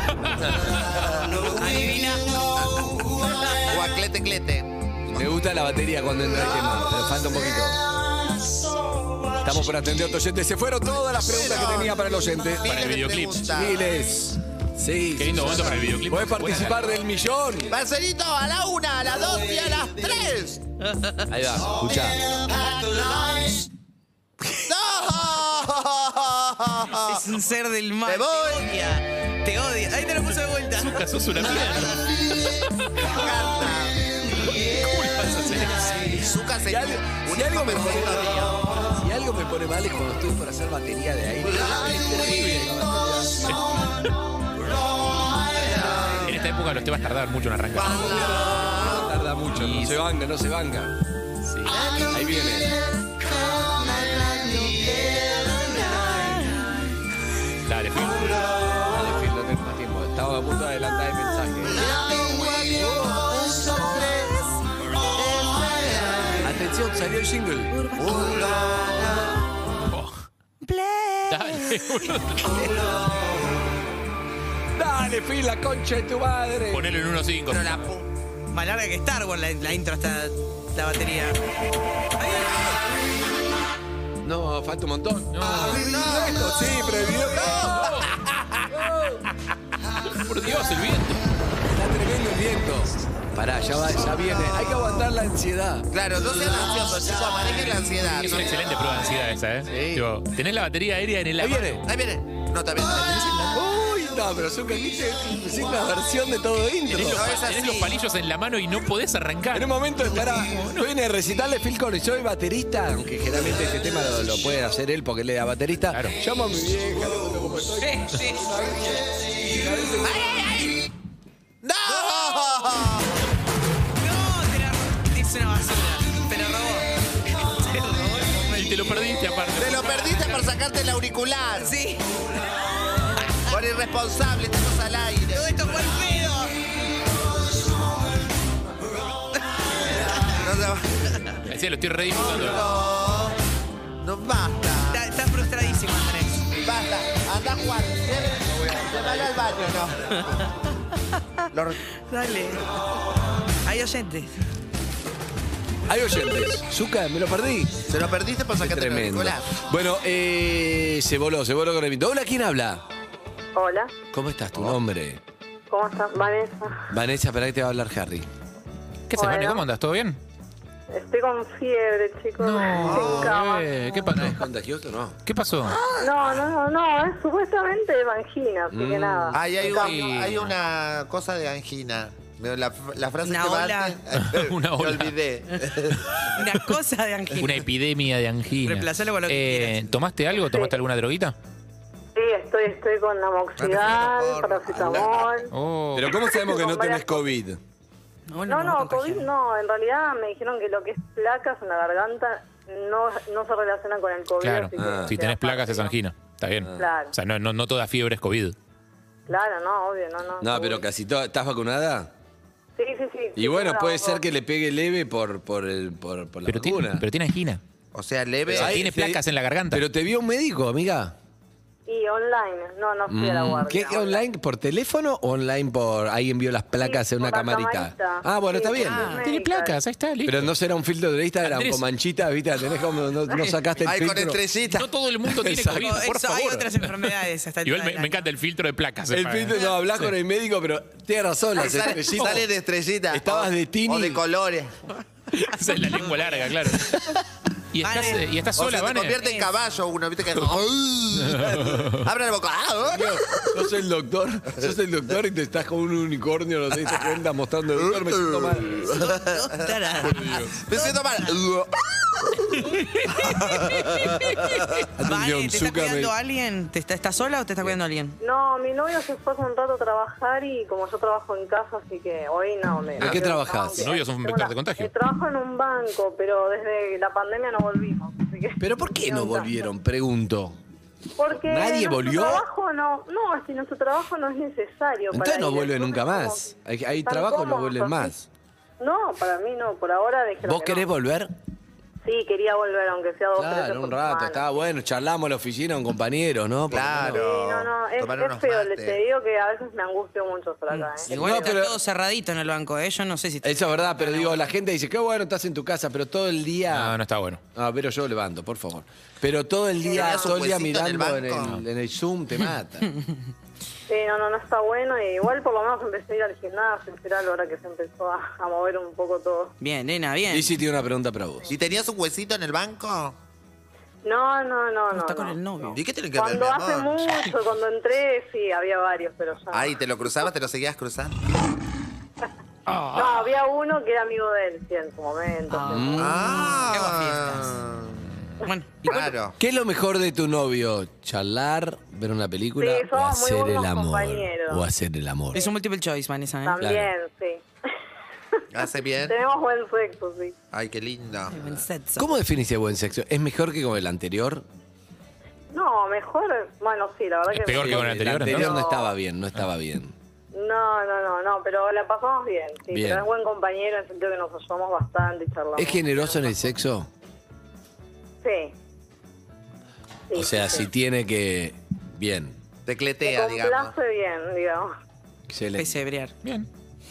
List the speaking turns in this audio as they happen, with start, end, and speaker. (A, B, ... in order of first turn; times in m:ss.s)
0:00.6-0:01.9 A
0:01.5-0:02.3 B
0:03.2-0:03.6 B
0:03.5-0:04.7 A
0:05.1-0:07.8 C
0:09.4-0:12.7 C
0:11.0-0:13.9 A
0:12.6-0:13.6 D
0:13.5-0:17.7 C
0:15.2-0:16.9 D
0:17.7-0:20.6 A
0:20.9-0:21.3 B
0:21.3-0:22.3 C
0:21.6-0:23.6 A
0:24.5-0:27.3 A
0:27.0-0:31.1 B
0:28.0-0:28.8 A
0:30.7-0:33.0 D
0:33.0-0:34.1 A
0:34.4-0:36.2 D
0:36.1-0:38.6 A
0:36.6-0:43.6 C
0:41.4-0:42.6 A
0:43.4-0:44.1 D
0:45.2-0:46.4 A
0:46.2-0:48.4 D
0:47.7-0:49.1 A
0:48.1-0:51.0 C
0:49.5-0:50.0 D
0:51.4-0:51.8 D
0:51.7-0:56.6 A
0:52.1-0:52.8 C
0:57.6-0:58.4 D
0:58.9-1:01.9 C
1:01.6-1:04.4 A
1:02.8-1:03.3 C
1:05.1-1:06.5 A
1:06.4-1:07.7 C
1:07.7-1:08.5 B
1:08.0-1:09.4 A
1:09.9-1:10.2 D
1:10.6-1:12.7 B
1:11.3-1:12.6 D
1:12.8-1:13.2 A
1:14.7-1:16.9 C
1:16.7-1:17.9 D
1:17.5-1:18.1 A
1:18.5-1:21.4 B
1:22.2-1:22.7 B
1:24.2-1:28.1 C
1:25.3-1:25.8 D
1:25.8-1:26.4 A
1:27.2-1:28.2 A
1:28.7-1:29.2 C
1:30.1-1:31.2 D
1:31.7-1:35.9 C
1:34.0-1:35.1 A
1:35.9-1:38.6 A
1:37.9-1:41.8 D
1:39.6-1:40.0 C
1:41.4-1:41.8 C
1:41.8-1:43.5 A
1:43.0-1:43.3 D
1:43.5-1:47.3 C
1:46.9-1:49.7 D
1:47.1-1:47.9 A
1:49.5-2:00.2 C
1:55.9-1:56.2 D
1:57.8-1:58.6 B
2:00.0-2:00.8 A
2:01.6-2:03.1 A
2:02.1-2:02.5 B
2:04.0-2:09.0 B
2:08.5-2:10.4 D
2:09.6-2:11.7 A
2:11.5-2:12.0 B
2:13.5-2:15.9 A
2:15.3-2:16.5 B
2:20.2-2:21.3 A
2:21.4-2:22.8 D
2:22.1-2:23.4 A
2:24.0-2:25.1 A
2:24.9-2:26.4 B
2:26.6-2:30.3 A
2:30.2-2:30.4 B
2:31.5-2:31.8 A
2:32.0-2:32.7 B
2:33.6-2:34.3 B
2:35.9-2:37.8 C
2:37.8-2:39.5 A
2:38.6-2:42.8 C
2:43.5-2:43.9 E
2:44.1-2:45.2 C
2:45.7-2:46.7 E
2:46.9-2:48.3 C
2:49.1-2:50.2 D
2:49.1-2:49.6 E
2:50.9-2:53.7 E
2:52.4-2:54.4 D
2:52.8-2:53.4 A
2:54.1-2:55.2 C
2:55.2-2:55.8 D
2:55.7-2:56.1 A
2:56.0-2:59.9 E
2:58.7-2:59.7 C
2:59.3-3:06.3 A
2:59.7-3:00.5 D
3:03.2-3:04.0 B
3:04.1-3:05.3 D
3:06.2-3:07.6 B
3:07.4-3:11.4 D
3:08.6-3:09.9 B
3:10.4-3:10.7 E
3:12.1-3:15.5 E
3:13.6-3:15.4 A
3:15.5-3:16.1 D
3:15.9-3:17.6 C
3:16.2-3:17.3 E
3:18.3-3:19.3 B
3:18.5-3:25.9 E
3:24.4-3:28.5 D
3:24.8-3:25.2 C
3:26.6-3:26.9 C
3:26.8-3:27.1 E
3:29.3-3:30.8 E
3:30.4-3:32.1 C
3:32.8-3:34.2 E
3:33.4-3:37.0 C
3:36.5-3:37.6 D
3:37.9-3:38.8 A
3:38.5-3:39.8 D
3:38.5-3:41.1 C
3:41.9-3:44.2 E
3:43.1-3:49.2 C
3:46.8-3:49.8 E
3:48.8-3:49.2 B
3:49.2-3:50.5 D
3:50.2-3:54.4 C
3:51.4-3:51.8 D
3:53.8-3:54.8 A
3:54.7-3:57.1 D
3:55.3-3:56.0 C
3:55.7-3:58.3 B
3:57.6-4:00.1 D
3:59.1-4:02.5 C
4:01.6-4:04.7 A
4:02.2-4:02.4 D
4:03.1-4:04.2 C
4:05.3-4:07.2 D
4:05.7-4:07.0 B
4:07.7-4:09.2 D
4:07.8-4:08.3 B
4:08.5-4:13.7 A
4:09.2-4:09.6 B
4:11.2-4:12.0 D
4:12.9-4:19.1 C
4:17.7-4:24.9 A
4:19.0-4:21.4 B
4:20.0-4:20.5 C
4:24.9-4:26.1 C
4:25.0-4:28.2 B
4:28.2-4:39.7 E
4:33.0-4:34.0 C
4:33.7-4:34.9 D
4:38.6-4:40.6 C
4:41.2-4:48.1 E
4:41.3-4:42.4 C
4:45.1-4:48.2 C
4:48.8-4:50.9 E
4:50.4-4:51.3 C
4:52.0-4:54.4 E
4:53.3-4:57.2 C
4:56.7-4:59.0 A
4:57.1-5:01.6 E
5:00.7-5:04.5 B
5:01.1-5:01.8 C
5:03.4-5:07.0 C
5:06.7-5:07.4 D
5:07.5-5:12.9 C
5:09.8-5:10.5 E
5:09.9-5:11.5 A
5:13.9-5:19.5 E
5:19.6-5:20.5 B
5:20.3-5:21.5 C
5:21.5-5:23.2 A
5:24.0-5:25.4 E
5:24.9-5:25.8 B
5:25.7-5:27.4 A
5:26.1-5:29.7 E
5:29.5-5:31.2 A
5:32.7-5:33.3 D
5:32.9-5:36.0 E
5:35.5-5:37.6 B
5:35.6-5:36.3 C
5:35.9-5:38.2 A
5:38.4-5:39.1 B
5:38.8-5:39.3 A
5:39.4-5:45.5 C
5:42.6-5:44.6 E
5:45.3-5:46.6 B
5:46.4-5:47.4 E
5:46.6-5:46.9 C
5:48.5-5:49.2 A
5:49.0-5:50.3 E
5:50.5-5:51.5 A
5:51.3-5:52.1 B
5:52.0-5:54.4 C
5:55.5-5:58.9 E
5:57.3-5:58.6 D
5:57.4-5:59.9 C
6:00.3-6:05.8 E
6:02.7-6:03.1 C
6:05.6-6:06.9 C
6:08.2-6:08.5 E
6:10.1-6:10.6 E
6:10.1-6:12.4 C
6:12.6-6:13.7 A
6:13.0-6:14.7 E
6:15.3-6:15.7 C
6:15.6-6:16.1 B